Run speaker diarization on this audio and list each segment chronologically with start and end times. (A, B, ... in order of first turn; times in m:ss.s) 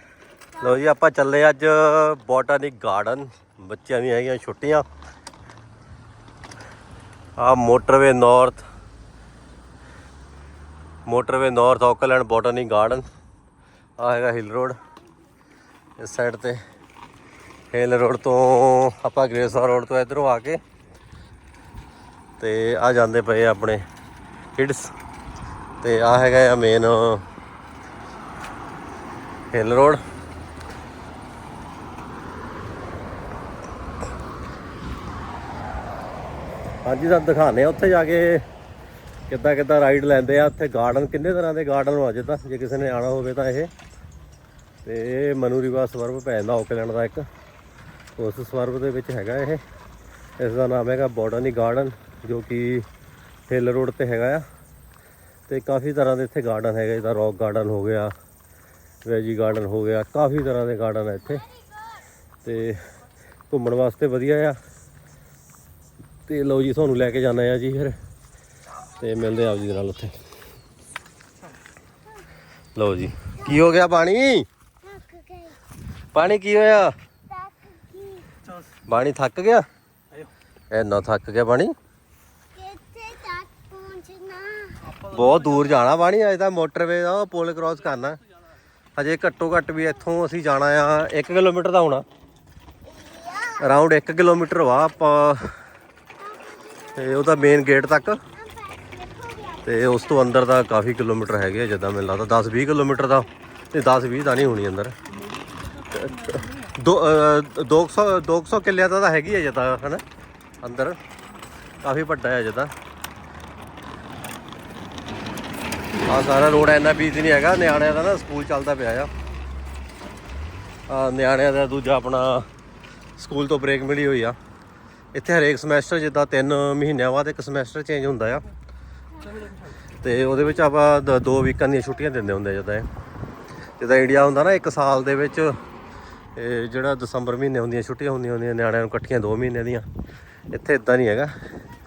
0:00.6-0:04.8 A
0:07.4-0:08.6 A
0:11.0-0:13.0 A
0:14.0-0:14.8 A
0:16.0-0:16.6 A
0:17.7-0:20.6 A
0:22.4-0:23.8 A
0:24.6-0:24.9 A
0:25.8-0:27.2 A
0:29.5-0:30.0 A
0:36.8-0:38.4 A
0:39.3-0:43.7 A
0:44.8-0:47.3 A
0:48.2-0:49.6 A
0:50.4-0:52.8 A
0:53.5-0:54.4 A
0:55.5-0:58.1 A
0:59.0-1:01.4 A
1:02.4-1:02.8 A
1:03.5-1:04.6 A
1:06.3-1:08.0 A
1:09.0-1:10.2 A
1:12.7-1:14.4 A
1:14.8-1:15.6 B
1:16.1-1:16.9 A
1:17.3-1:18.3 B
1:18.9-1:19.6 A
1:20.7-1:21.7 A
1:22.5-1:25.0 B
1:24.9-1:28.2 A
1:29.0-1:32.0 A
1:33.0-1:33.5 B
1:33.6-1:35.6 A
1:36.9-1:38.2 A
1:38.3-1:39.6 B
1:39.6-1:45.0 A
1:45.9-1:50.0 A
1:50.6-1:51.0 A
1:51.8-1:52.7 A
1:56.1-1:59.1 A
2:00.9-2:02.5 A
2:03.2-2:04.4 A
2:05.1-2:08.4 A
2:10.0-2:12.9 A
2:13.8-2:15.6 A
2:16.3-2:19.9 A
2:20.5-2:21.3 A